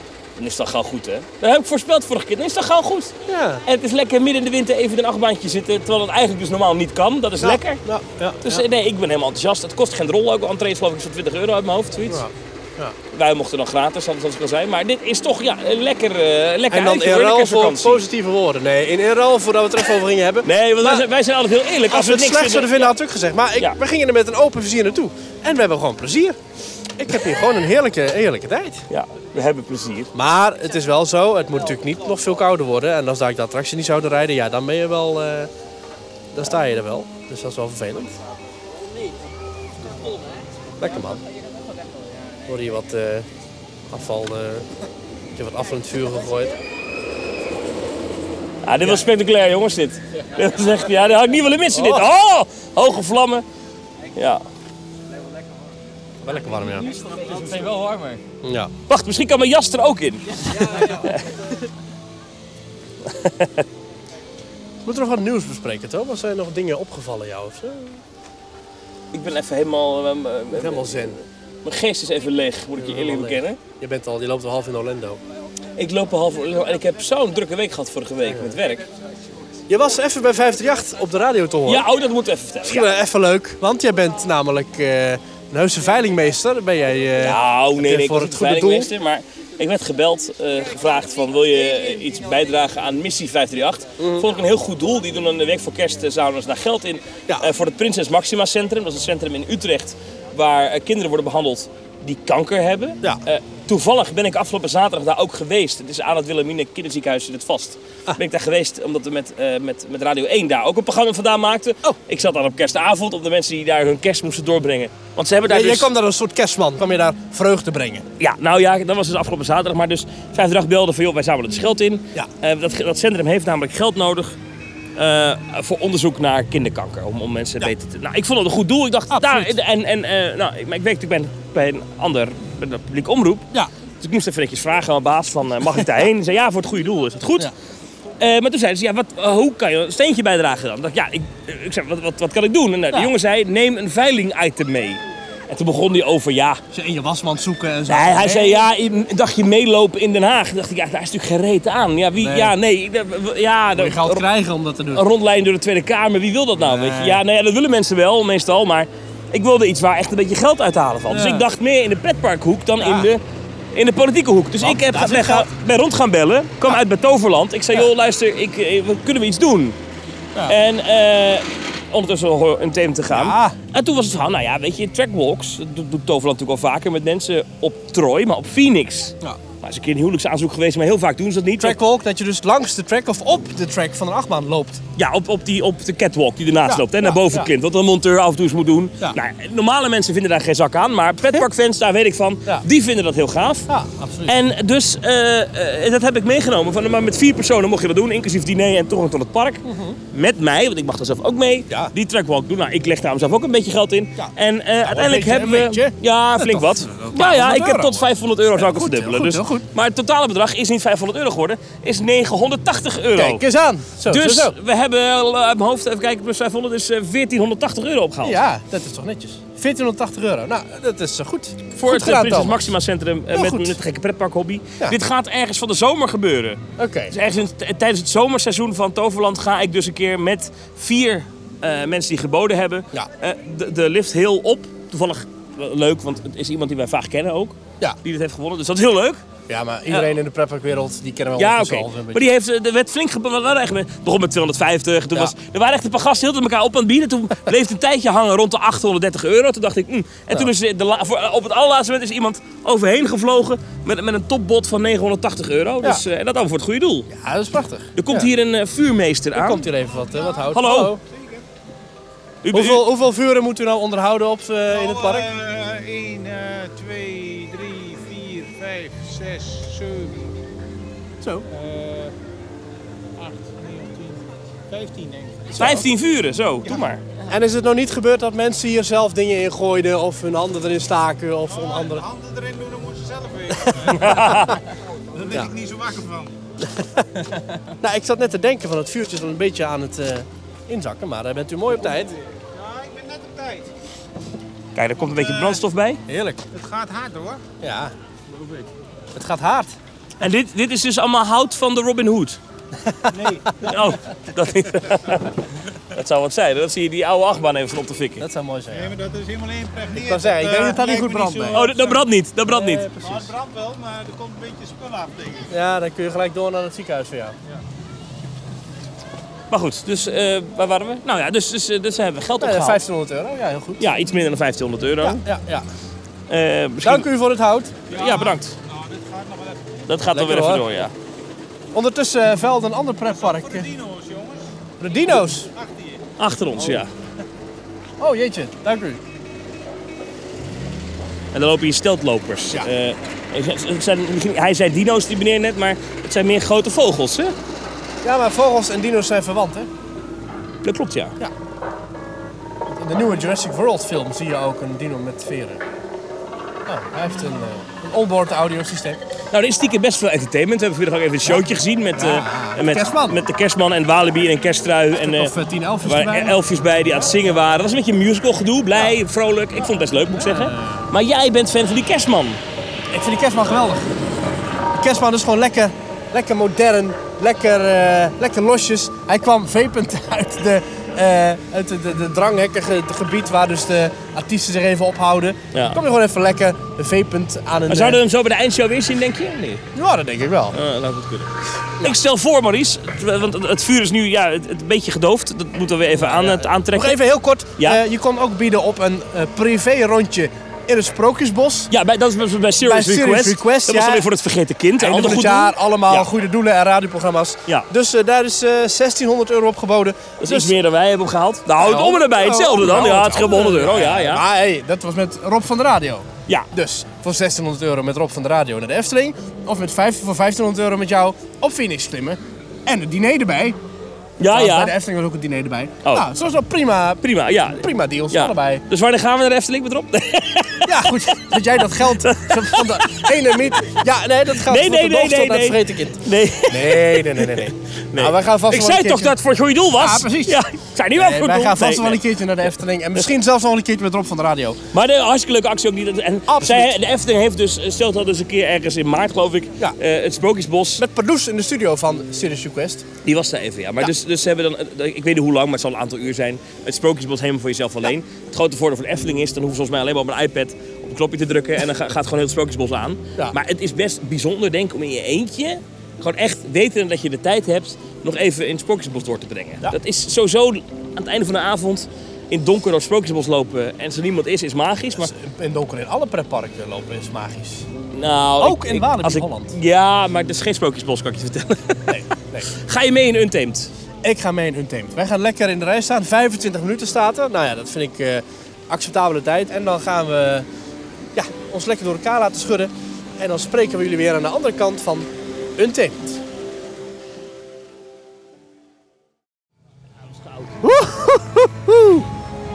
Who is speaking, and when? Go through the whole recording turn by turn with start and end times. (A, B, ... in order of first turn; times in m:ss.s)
0:00.4-0:07.8 A
0:03.3-0:03.6 B
0:07.4-0:08.6 B
0:08.4-0:12.2 A
0:12.0-0:12.9 B
0:13.1-0:18.0 A
0:16.7-0:21.1 B
0:20.4-0:22.9 A
0:21.9-0:26.4 B
0:27.0-0:28.8 B
0:28.9-0:30.1 A
0:30.1-0:35.5 B
0:36.3-0:38.2 B
0:40.8-0:41.2 B
0:42.5-0:43.3 B
0:43.9-0:44.7 B
0:45.3-0:46.6 B
0:48.6-0:53.4 A
0:51.7-0:52.1 B
0:54.1-0:54.4 A
0:56.2-0:56.9 B
0:57.0-0:58.2 A
0:58.4-0:58.7 B
0:58.9-1:01.2 A
1:03.0-1:03.6 A
1:04.8-1:08.0 B
1:09.1-1:11.0 A
1:10.5-1:11.2 B
1:11.6-1:13.6 A
1:12.8-1:15.2 B
1:15.8-1:18.8 A
1:18.2-1:18.6 B
1:19.7-1:21.9 B
1:21.7-1:22.9 A
1:22.6-1:28.9 B
1:27.2-1:55.9 A
1:34.0-1:34.2 B
1:55.5-1:58.0 B
1:58.2-2:04.4 A
2:05.0-2:13.5 A
2:09.1-2:09.6 B
2:14.0-2:17.5 A
2:18.2-2:26.6 A
2:26.7-2:28.7 B
2:27.9-2:34.2 A
2:32.2-2:32.5 B
2:33.7-2:35.0 B
2:34.9-2:43.2 A
2:36.6-2:37.2 B
2:41.1-2:41.5 B
2:42.8-2:43.1 B
2:43.7-2:49.8 A
2:44.6-2:45.5 B
2:50.4-3:01.8 A
2:53.1-2:53.6 B
3:01.6-3:04.8 B
3:05.0-3:13.7 A
3:06.6-3:07.5 B
3:13.7-3:14.4 B
3:14.2-3:33.4 A
3:19.6-3:20.0 B
3:24.2-3:29.6 B
3:33.1-3:34.5 B
3:34.0-3:38.4 A
3:38.2-3:42.7 B
3:41.7-3:59.2 A
3:43.3-3:43.8 B
3:46.8-3:47.1 B
3:59.5-4:02.3 B
4:01.4-4:17.1 A
4:17.1-4:18.3 B
4:18.0-4:19.7 A
4:19.3-4:21.0 B
4:20.0-4:20.5 C
4:20.5-4:20.9 A
4:21.0-4:21.4 C
4:22.4-4:22.8 A
4:22.5-4:25.3 B
4:24.7-4:30.4 C
4:31.2-4:31.5 B
4:31.5-4:32.1 C
4:33.2-4:35.6 C
4:35.5-4:35.9 B
4:35.6-4:37.0 A
4:37.3-4:42.0 B
4:41.5-4:46.4 C
4:43.6-4:44.4 B
4:43.9-4:44.6 A
4:46.6-4:52.1 B
4:51.8-4:53.7 C
4:54.8-4:56.0 A
4:55.0-4:55.6 C
4:56.1-4:56.4 B
4:56.5-4:57.4 C
4:57.6-4:57.9 B
4:59.1-4:59.8 B
5:00.2-5:02.4 A
5:02.8-5:03.3 B
5:03.1-5:04.0 C
5:03.6-5:05.4 A
5:05.9-5:08.2 A
5:08.2-5:08.9 B
5:08.7-5:12.0 C
5:09.9-5:11.7 B
5:11.5-5:12.9 A
5:12.5-5:13.3 B
5:13.0-5:15.5 C
5:15.5-5:17.4 B
5:19.5-5:22.8 A
5:22.4-5:23.8 B
5:23.8-5:25.2 A
5:25.0-5:25.7 B
5:26.3-5:27.1 A
5:26.8-5:27.8 B
5:27.9-5:28.5 A
5:27.9-5:29.8 C
5:29.9-5:30.9 A
5:30.1-5:30.7 B
5:31.7-5:33.7 B
5:33.0-5:34.5 C
5:34.8-5:35.5 B
5:35.0-5:36.0 C
5:36.2-5:36.9 A
5:36.6-5:36.8 B
5:38.0-5:39.0 B
5:41.3-5:47.4 A
5:48.0-5:49.7 B
5:50.6-5:51.2 A
5:52.7-5:55.6 B
5:56.6-5:59.0 B
5:59.3-6:05.3 A
6:01.9-6:03.2 B
6:04.9-6:06.4 B
6:05.8-6:12.4 A
6:10.1-6:10.8 B
6:12.9-6:13.9 B
6:14.7-6:28.0 B
6:25.5-6:25.8 A
6:27.7-6:29.6 A
6:29.7-6:30.6 B
6:30.5-6:37.0 A
6:36.0-6:41.7 B
6:41.7-6:46.1 A
6:42.6-6:44.1 B
6:44.8-6:50.6 B
6:50.2-6:54.2 A
6:51.6-7:03.6 B
7:04.2-7:04.7 A
7:04.2-7:08.6 B
7:07.0-7:13.7 A
7:10.6-7:19.2 B
7:14.4-7:22.0 A
7:19.7-7:24.6 B
7:24.7-7:30.8 A
7:26.3-7:26.8 B
7:30.8-7:32.9 B
7:33.0-7:55.1 A
7:55.0-7:57.7 B
7:57.9-8:03.7 A
7:58.4-7:59.5 B
8:01.9-8:02.5 B
8:04.0-8:10.5 B
8:11.1-8:16.2 B
8:20.0-8:20.7 A
8:20.6-8:22.0 B